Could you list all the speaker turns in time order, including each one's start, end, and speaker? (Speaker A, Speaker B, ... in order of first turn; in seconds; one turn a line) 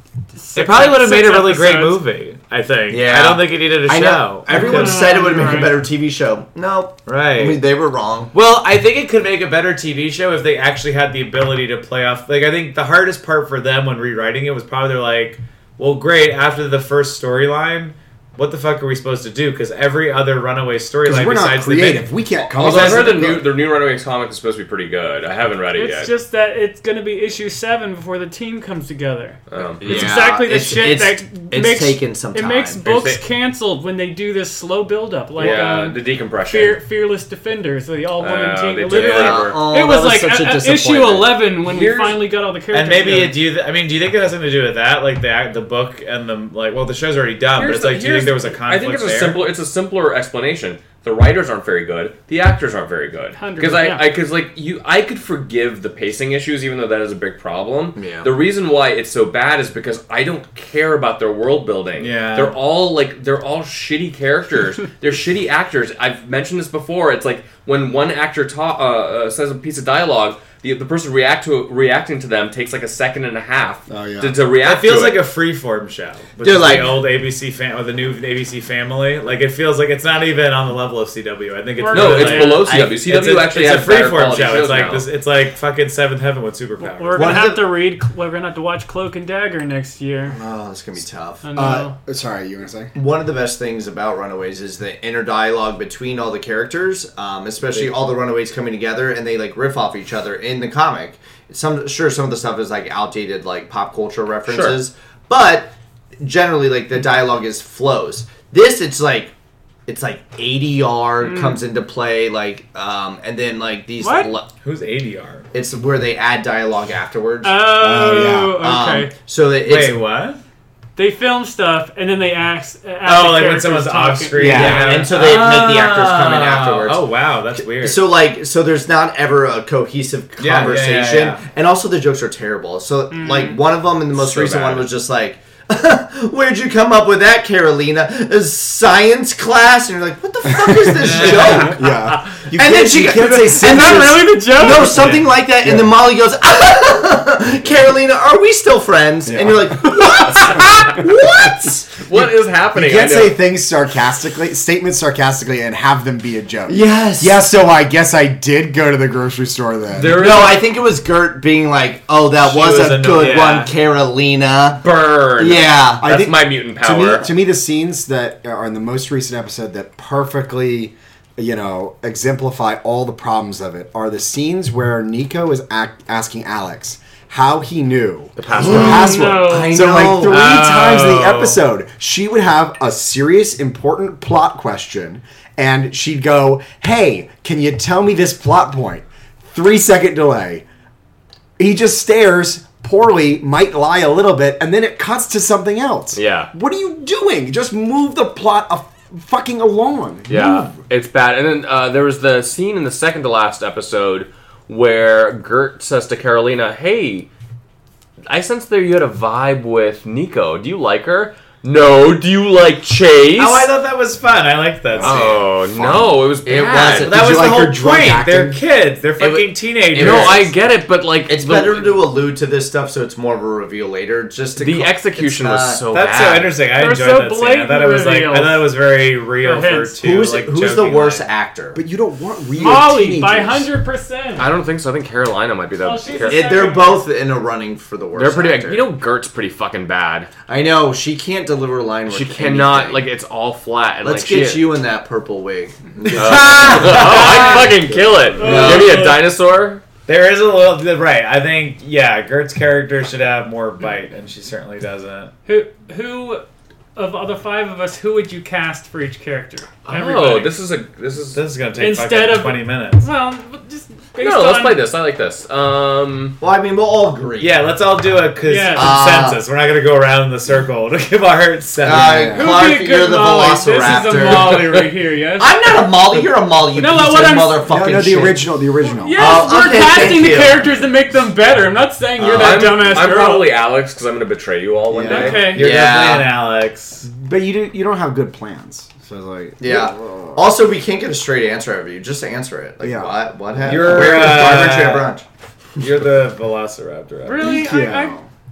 Speaker A: 0.3-2.0
Speaker B: 0.5-5.6
Speaker C: 2.9-3.4
Speaker D: 3.0-3.3
Speaker D: 3.9-8.3
Speaker A: 4.5-5.7
Speaker B: 7.0-7.6
Speaker B: 8.3-23.3
Speaker E: 21.0-23.5
Speaker C: 22.5-26.1
Speaker A: 25.7-43.4
Speaker C: 29.5-30.1
Speaker D: 29.8-32.9
Speaker C: 32.9-33.2
Speaker C: 35.4-36.8
Speaker D: 35.4-35.7
Speaker C: 38.2-39.6
Speaker D: 38.9-41.5
Speaker C: 41.6-42.2
Speaker B: 42.7-49.4
Speaker C: 47.5-75.2
Speaker A: 53.4-54.1
Speaker D: 58.0-58.3
Speaker B: 62.0-62.6
Speaker E: 73.9-74.4
Speaker B: 74.6-87.5
Speaker D: 76.4-77.0
Speaker A: 81.8-82.7
Speaker C: 81.9-85.1
Speaker A: 86.8-90.4
Speaker D: 87.2-87.8
Speaker D: 90.3-91.5
Speaker A: 91.4-91.9
Speaker E: 91.5-92.9
Speaker D: 92.9-109.3
Speaker C: 104.5-104.8
Speaker D: 109.9-114.5
Speaker A: 111.2-111.6
Speaker A: 114.0-114.3
Speaker B: 114.6-115.5
Speaker D: 115.5-117.7
Speaker A: 117.4-119.1
Speaker E: 117.7-118.6
Speaker D: 118.5-120.0
Speaker B: 119.6-120.4
Speaker A: 121.0-125.0
Speaker B: 123.0-128.0
Speaker E: 124.4-125.1
Speaker D: 124.4-141.8
Speaker B: 130.4-131.4
Speaker A: 133.1-133.6
Speaker C: 134.1-134.9
Speaker E: 140.4-144.3
Speaker B: 141.0-141.7
Speaker D: 142.6-151.9
Speaker A: 143.2-145.2
Speaker B: 144.8-145.2
Speaker E: 145.6-145.9
Speaker E: 149.2-150.1
Speaker C: 151.9-153.4
Speaker E: 152.7-160.2
Speaker D: 156.7-157.3
Speaker C: 159.9-160.6
Speaker D: 160.1-164.8
Speaker B: 162.3-163.7
Speaker C: 164.8-167.3
Speaker D: 165.4-166.1
Speaker E: 166.0-190.6
Speaker C: 178.4-179.2
Speaker D: 178.5-180.6
Speaker A: 178.7-180.0
Speaker B: 180.1-181.6
Speaker E: 191.6-200.7
Speaker C: 196.1-196.5
Speaker C: 200.3-207.3
Speaker C: 208.3-213.7
Speaker B: 213.3-215.3
Speaker E: 214.9-216.2
Speaker C: 215.0-217.1
Speaker D: 215.1-215.4
Speaker D: 216.4-217.7
Speaker B: 217.0-220.5
Speaker E: 217.1-218.6
Speaker D: 219.2-220.5
Speaker C: 219.9-222.0
Speaker D: 221.3-225.8
Speaker C: 224.6-226.5
Speaker B: 225.9-231.3
Speaker A: 226.7-228.7
Speaker A: 229.4-229.9
Speaker D: 230.0-231.8
Speaker E: 231.7-233.7
Speaker A: 232.6-234.5
Speaker C: 234.4-236.5
Speaker A: 235.8-237.0
Speaker D: 236.2-238.9
Speaker C: 238.1-240.3
Speaker D: 240.5-243.0
Speaker C: 242.1-244.7
Speaker D: 244.0-247.8
Speaker B: 246.1-247.6
Speaker C: 246.1-249.8
Speaker E: 247.9-248.4
Speaker A: 248.4-249.2
Speaker D: 248.4-249.1
Speaker B: 250.1-255.3
Speaker A: 255.4-260.5
Speaker C: 259.9-261.4
Speaker B: 261.3-263.1
Speaker A: 261.8-264.9
Speaker C: 264.2-266.4
Speaker D: 266.4-267.6
Speaker B: 267.4-272.3
Speaker A: 268.4-268.9
Speaker D: 268.7-269.4
Speaker D: 271.8-278.5
Speaker E: 271.9-272.7
Speaker A: 272.3-275.5
Speaker A: 276.7-277.6
Speaker E: 277.6-279.5
Speaker A: 278.8-283.6
Speaker D: 279.1-280.8
Speaker D: 282.2-283.0
Speaker C: 282.2-285.5
Speaker E: 284.9-285.4
Speaker A: 285.1-285.7
Speaker B: 285.3-287.1
Speaker D: 285.5-286.4
Speaker E: 287.0-290.5
Speaker D: 289.6-295.2
Speaker E: 292.8-294.3
Speaker B: 293.6-295.1
Speaker B: 295.8-297.6
Speaker A: 297.2-298.1
Speaker E: 297.4-298.3